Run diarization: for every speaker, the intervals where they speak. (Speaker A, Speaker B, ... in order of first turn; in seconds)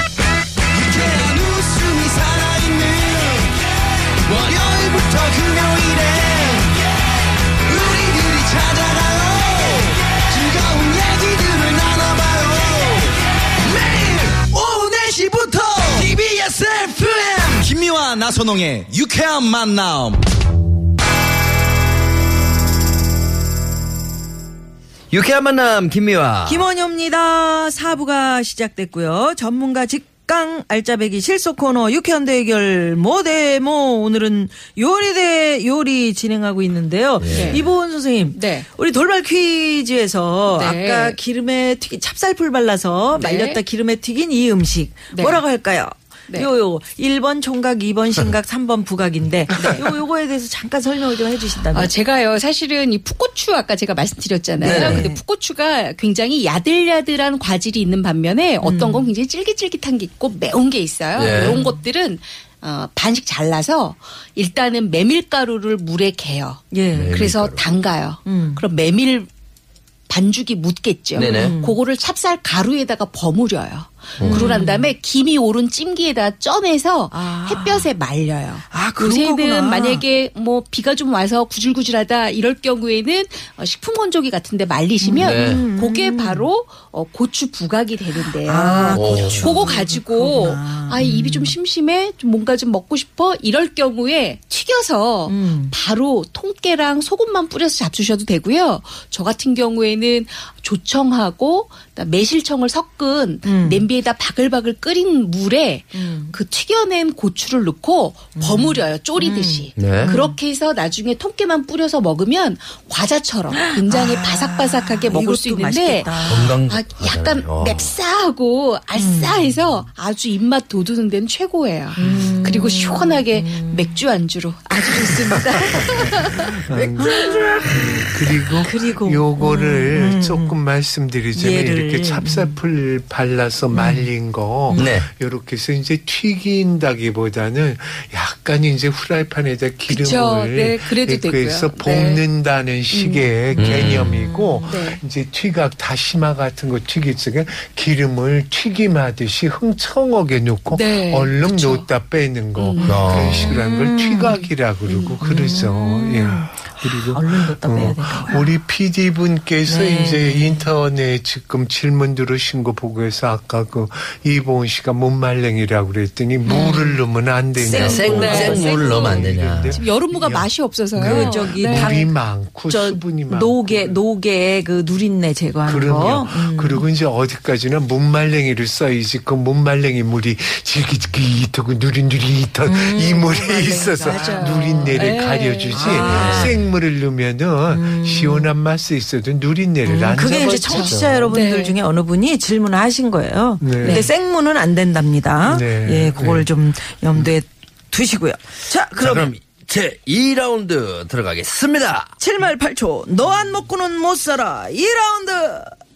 Speaker A: 0.7-3.5, 4.2-6.8, 7.7-20.2
Speaker B: 25.1-26.7, 37.2-37.7, 54.6-55.1, 61.2-61.6, 66.9-67.7, 71.2-71.6, 74.2-74.5, 85.2-85.7, 88.9-89.7, 109.8-110.2, 116.2-117.9, 134.7-135.1, 143.6-144.2, 152.8-153.6, 167.6-169.8, 186.1-186.7, 199.0-202.1
Speaker C: 26.5-51.9, 54.6-55.2, 58.6-59.1, 61.4-61.8, 66.7-67.2, 68.2-68.6, 71.2-71.8, 74.2-74.9, 77.1-77.9, 78.7-80.0, 85.0-86.5, 88.2-91.5, 95.3-95.7, 103.4-103.8, 105.9-106.4, 108.3-110.4, 113.5-116.6, 118.9-119.5, 122.0-124.0, 124.9-125.4, 126.7-130.6, 131.3-132.6, 133.7-134.1, 134.7-135.0, 143.6-144.9, 153.2-158.5, 159.6-160.7, 166.4-167.0, 167.6-168.7, 170.9-172.1, 172.7-176.9, 182.7-185.2, 185.7-186.6, 187.7-188.5, 189.8-199.3, 202.2-205.8
Speaker D: 37.3-37.6, 38.3-38.7, 40.5-41.2, 43.2-43.6, 45.1-45.4, 49.5-49.8, 51.7-69.3, 70.1-127.3, 139.9-142.2, 142.9-143.4, 144.7-145.0, 150.7-151.8, 152.6-153.1, 167.8-172.0, 184.1-186.1, 190.5-191.8, 193.8-194.1
Speaker E: 122.0-122.4, 126.5-174.0, 175.7-191.3, 193.6-194.1, 195.4-196.5